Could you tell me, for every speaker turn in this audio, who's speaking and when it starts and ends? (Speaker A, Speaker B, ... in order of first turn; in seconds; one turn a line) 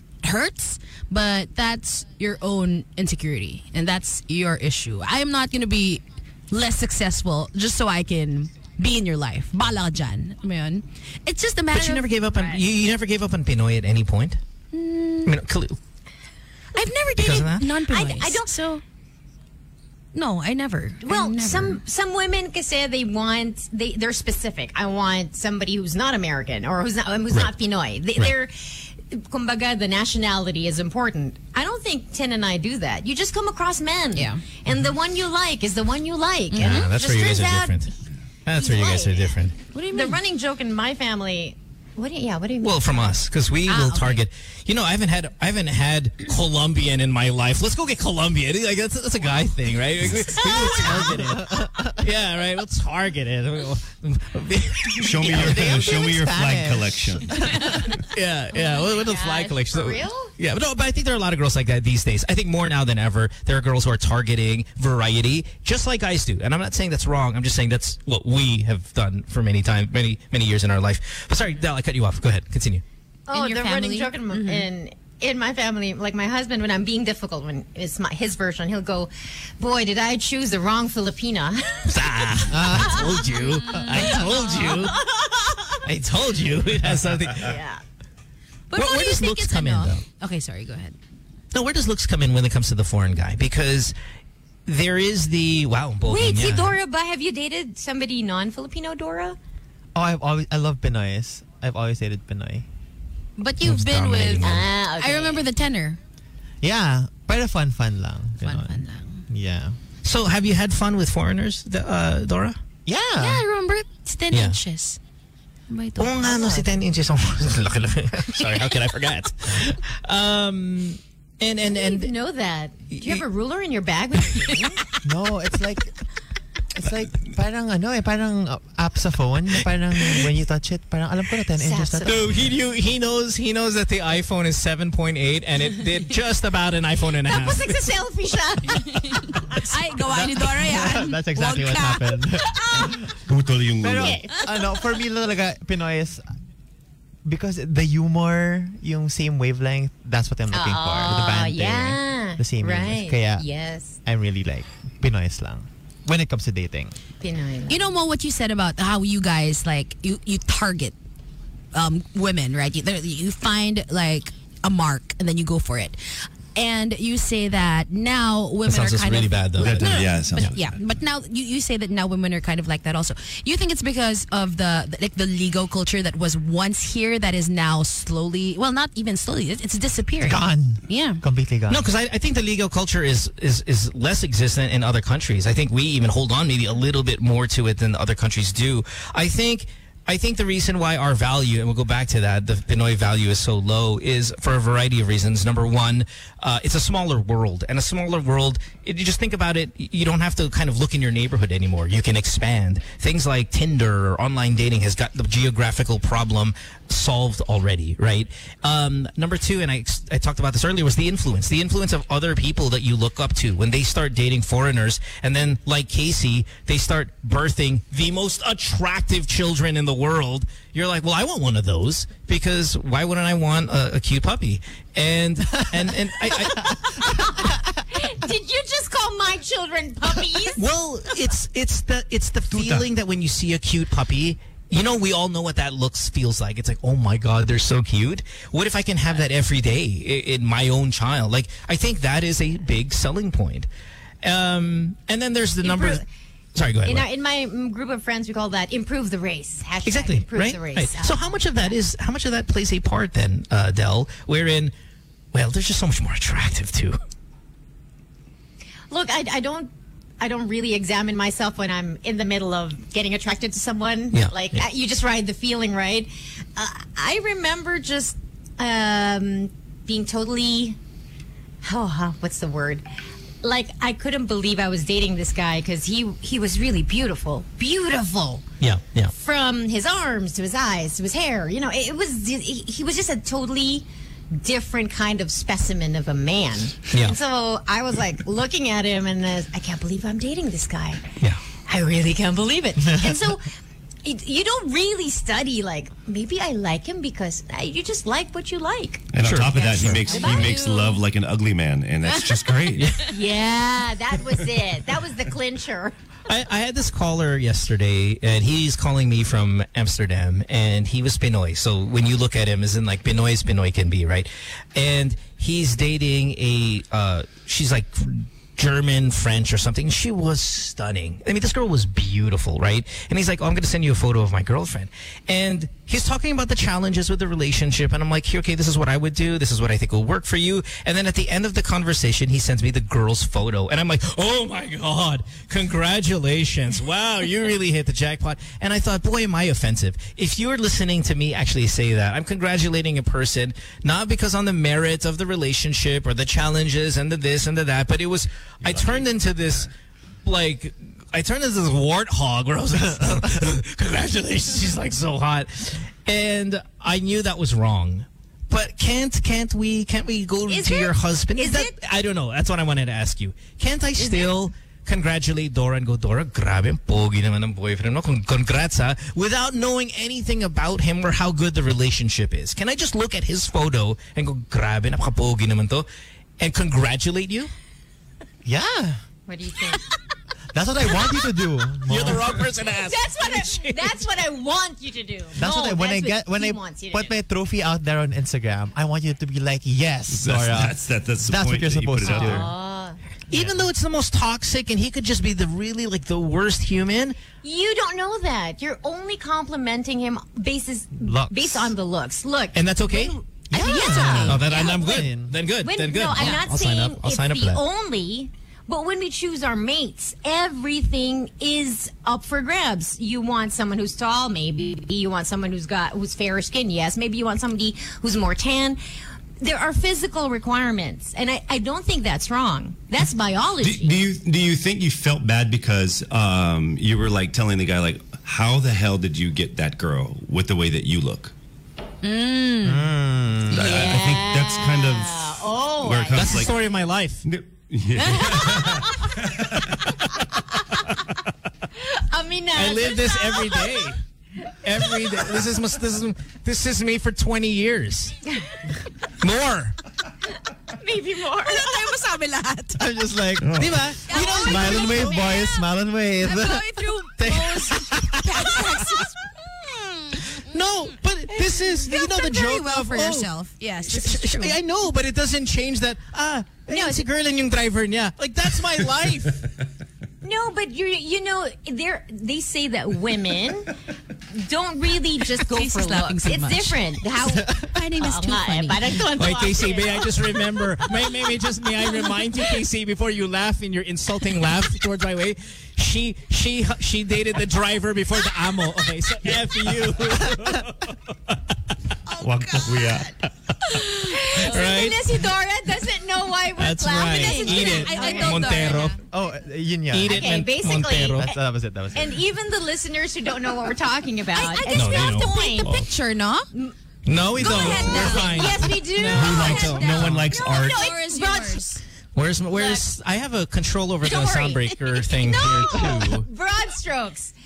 Speaker A: 0.2-12.6
Speaker B: 11.7-14.4
Speaker A: 14.7-15.4
Speaker B: 15.2-15.8
Speaker A: 16.7-18.8
Speaker B: 17.2-17.7
Speaker C: 17.9-18.5
Speaker A: 20.1-21.8
Speaker C: 21.0-37.9
Speaker A: 34.1-34.4
Speaker A: 36.5-36.9
Speaker B: 36.5-37.9
Speaker B: 38.5-39.6
Speaker C: 38.5-39.4
Speaker A: 39.7-40.2
Speaker C: 39.9-43.1
Speaker B: 42.6-55.8
Speaker C: 43.7-44.2
Speaker D: 51.5-51.8
Speaker E: 55.0-57.6
Speaker D: 55.2-57.6
Speaker B: 57.4-72.8
Speaker C: 58.6-60.3
Speaker C: 73.3-82.0
Speaker A: 73.3-74.7
Speaker B: 81.9-85.0
Speaker D: 82.5-83.1
Speaker A: 83.6-84.3
Speaker C: 84.1-85.8
Speaker B: 85.8-87.6
Speaker C: 87.4-87.8
Speaker A: 88.7-91.0
Speaker B: 88.7-90.0
Speaker B: 91.5-94.0
Speaker B: 94.7-96.8
Speaker C: 96.0-99.4
Speaker D: 100.0-102.7
Speaker A: 103.4-106.0
Speaker B: 103.6-104.7
Speaker C: 104.4-105.5
Speaker D: 106.6-109.8
Speaker A: 108.4-109.2
Speaker B: 110.0-112.6
Speaker D: 112.9-113.4
Speaker A: 113.2-115.0
Speaker B: 114.3-114.6
Speaker A: 115.7-116.7
Speaker B: 116.0-122.1
Speaker C: 121.7-124.8
Speaker B: 122.9-123.2
Speaker D: 125.0-126.0
Speaker D: 126.7-132.5
Speaker B: 129.9-130.3
Speaker C: 131.6-132.5
Speaker B: 132.0-137.9
Speaker C: 137.3-139.4
Speaker A: 139.1-142.9
Speaker D: 140.1-143.1
Speaker E: 143.3-144.2
Speaker D: 143.8-146.2
Speaker C: 143.8-144.5
Speaker D: 147.2-153.5
Speaker C: 150.5-154.0
Speaker D: 154.0-157.0
Speaker C: 157.2-157.8
Speaker A: 157.7-160.9
Speaker A: 161.7-181.2
Speaker B: 168.7-170.5
Speaker E: 169.6-170.7
Speaker D: 180.2-181.9
Speaker B: 181.7-226.8
Speaker C: 226.6-230.7
Speaker B: 230.6-243.7
Speaker E: 232.5-232.8
Speaker B: 244.2-246.0
Speaker C: 245.6-246.1
Speaker B: 246.6-247.1
Speaker C: 246.8-251.4
Speaker B: 249.8-254.7
Speaker B: 255.3-257.0
Speaker C: 258.9-270.8
Speaker B: 264.1-264.6
Speaker C: 271.6-272.8
Speaker C: 273.4-278.5
Speaker B: 278.6-279.1
Speaker C: 279.1-291.0
Speaker B: 286.9-287.2
Speaker C: 291.7-293.5
Speaker D: 292.9-293.2
Speaker C: 294.1-300.9
Speaker E: 299.1-302.9
Speaker B: 299.2-300.0
Speaker A: 300.1-301.0
Speaker B: 302.7-303.0
Speaker C: 303.1-305.9
Speaker B: 306.3-349.7
Speaker E: 348.6-349.7
Speaker B: 350.2-375.9
Speaker C: 360.5-361.8
Speaker C: 364.0-364.3
Speaker B: 376.4-377.5
Speaker D: 378.4-379.0
Speaker C: 379.3-379.8
Speaker D: 380.5-382.4
Speaker B: 381.9-384.0
Speaker C: 382.7-387.1
Speaker D: 385.4-392.5
Speaker E: 390.1-392.5
Speaker C: 392.0-393.0
Speaker B: 393.3-397.2
Speaker C: 397.4-405.1
Speaker D: 401.0-401.7
Speaker B: 402.5-403.2
Speaker D: 403.5-405.3
Speaker A: 403.5-404.4
Speaker B: 404.2-407.6
Speaker C: 405.6-418.8
Speaker C: 419.4-424.0
Speaker E: 423.6-431.3
Speaker A: 432.0-432.9
Speaker D: 432.6-433.8
Speaker E: 433.5-436.6
Speaker C: 433.5-436.5
Speaker B: 436.1-437.2
Speaker E: 437.2-439.8
Speaker C: 438.2-439.0
Speaker C: 441.8-443.9
Speaker B: 442.5-444.0
Speaker B: 444.6-448.2
Speaker C: 444.8-445.4
Speaker B: 449.2-449.8
Speaker C: 450.7-451.9
Speaker A: 451.4-452.8
Speaker D: 452.8-458.8
Speaker E: 453.4-453.9
Speaker B: 453.6-454.9
Speaker A: 454.1-455.6
Speaker C: 454.1-455.5
Speaker A: 456.2-460.4
Speaker B: 460.3-463.3
Speaker A: 461.4-464.6
Speaker B: 463.8-469.5
Speaker C: 466.7-467.1
Speaker C: 470.2-473.8
Speaker C: 474.3-480.6
Speaker A: 475.3-478.9
Speaker B: 479.1-491.4
Speaker E: 492.2-493.1
Speaker C: 494.1-498.9
Speaker B: 494.4-495.1
Speaker B: 496.6-499.0
Speaker A: 497.1-499.0
Speaker D: 499.1-500.4
Speaker B: 499.9-501.3
Speaker C: 500.0-501.3
Speaker D: 501.1-502.2
Speaker C: 501.9-505.7
Speaker A: 504.4-506.5
Speaker B: 504.7-505.9
Speaker B: 507.1-510.3
Speaker A: 507.4-511.8
Speaker E: 507.5-507.9
Speaker C: 507.5-511.8
Speaker E: 509.1-510.9
Speaker B: 512.1-516.3
Speaker C: 512.5-512.9
Speaker C: 514.1-514.6
Speaker C: 515.1-517.3